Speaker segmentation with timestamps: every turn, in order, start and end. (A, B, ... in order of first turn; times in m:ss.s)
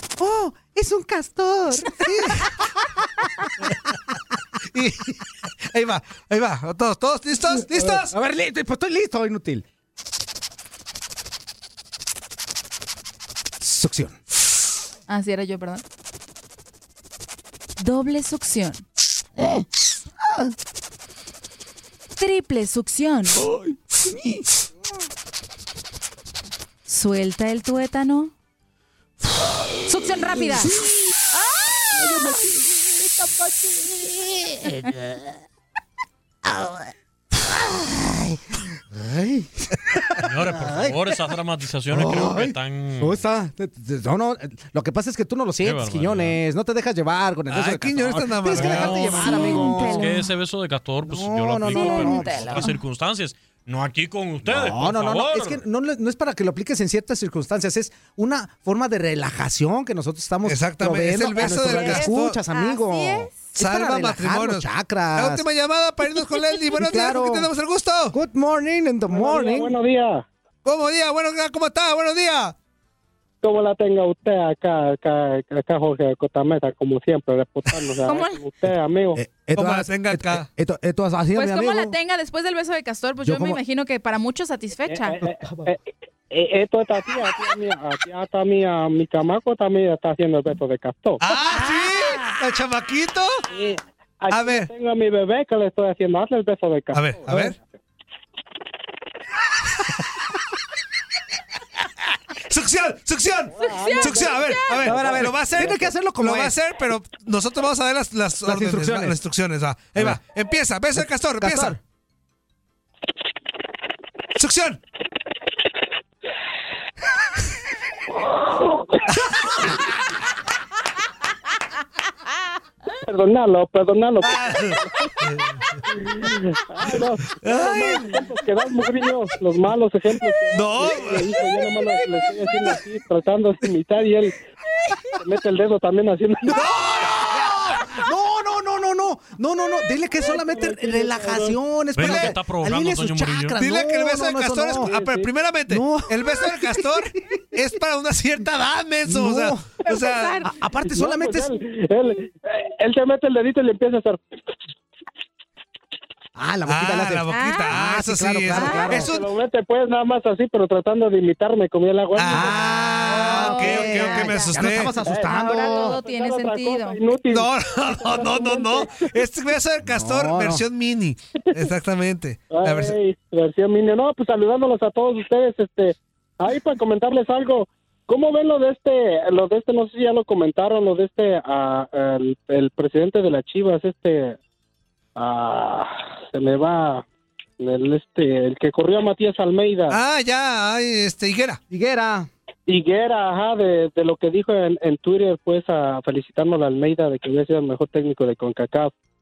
0:00.2-0:02.5 A
0:02.1-0:02.4 B
0:04.7-0:05.1 B
0:05.7-0:08.1 B
0:07.5-0:09.6 A
0:13.6-0:14.2 A
0:15.1-0:15.8 C
0:17.8-0:18.8 C
0:19.4-0:19.6 A
0:22.2-0:23.4 C
0:23.4-0:24.4 A
0:26.9-0:28.3 C
0:29.9-0:30.7 C
0:31.9-0:34.9 A
0:38.9-0:41.0 A
0:40.2-0:43.2 D
0:41.9-0:50.1 A
0:45.6-0:46.4 D
0:47.5-0:49.5 B
0:48.6-0:50.2 C
0:49.7-0:55.6 D
0:51.0-0:52.7 A
0:51.7-0:52.8 C
0:54.4-1:05.4 A
1:00.4-1:02.4 B
1:01.4-1:03.4 C
1:03.6-1:08.1 B
1:06.8-1:07.5 A
1:08.1-1:09.7 A
1:09.1-1:10.2 E
1:10.6-1:12.5 B
1:13.4-1:19.2 E
1:18.1-1:18.4 C
1:19.1-1:22.0 A
1:19.6-1:20.4 B
1:21.4-1:25.2 C
1:23.2-1:23.6 A
1:24.9-1:25.8 E
1:25.4-1:25.7 A
1:26.3-1:31.2 E
1:31.2-1:33.4 B
1:31.5-1:32.3 C
1:33.5-1:37.7 E
1:34.3-1:34.7 B
1:36.9-1:37.6 B
1:42.5-1:51.8 B
1:43.7-1:44.2 E
1:43.7-1:44.9 C
1:44.6-1:46.6 A
1:48.4-1:49.2 A
1:50.9-1:51.8 A
1:54.4-1:54.8 B
2:03.1-2:04.9 E
2:04.2-2:05.4 B
2:06.7-2:14.3 E
2:07.4-2:07.9 B
2:10.5-2:11.4 B
2:15.2-2:16.5 E
2:16.5-2:24.9 A
2:16.5-2:17.3 B
2:20.2-2:21.6 E
2:21.9-2:23.6 D
2:22.0-2:22.3 B
2:23.6-2:30.4 B
2:24.9-2:25.2 E
2:25.7-2:27.1 A
2:29.0-2:29.8 A
2:29.9-2:30.4 C
2:30.4-2:31.5 A
2:30.8-2:34.2 E
2:36.4-2:39.1 A
2:36.7-2:39.3 B
2:37.3-2:37.7 C
2:38.5-2:38.9 C
2:38.9-2:42.7 E
2:42.2-2:44.9 B
2:42.2-2:46.0 A
2:43.1-2:44.6 C
2:45.1-2:49.1 E
2:45.2-2:47.0 C
2:47.3-2:53.0 B
2:49.8-2:50.6 A
2:52.5-3:04.4 E
3:05.2-3:07.0 E
3:07.6-3:10.0 E
3:09.9-3:11.6 B
3:11.7-3:12.3 A
3:12.7-3:18.9 E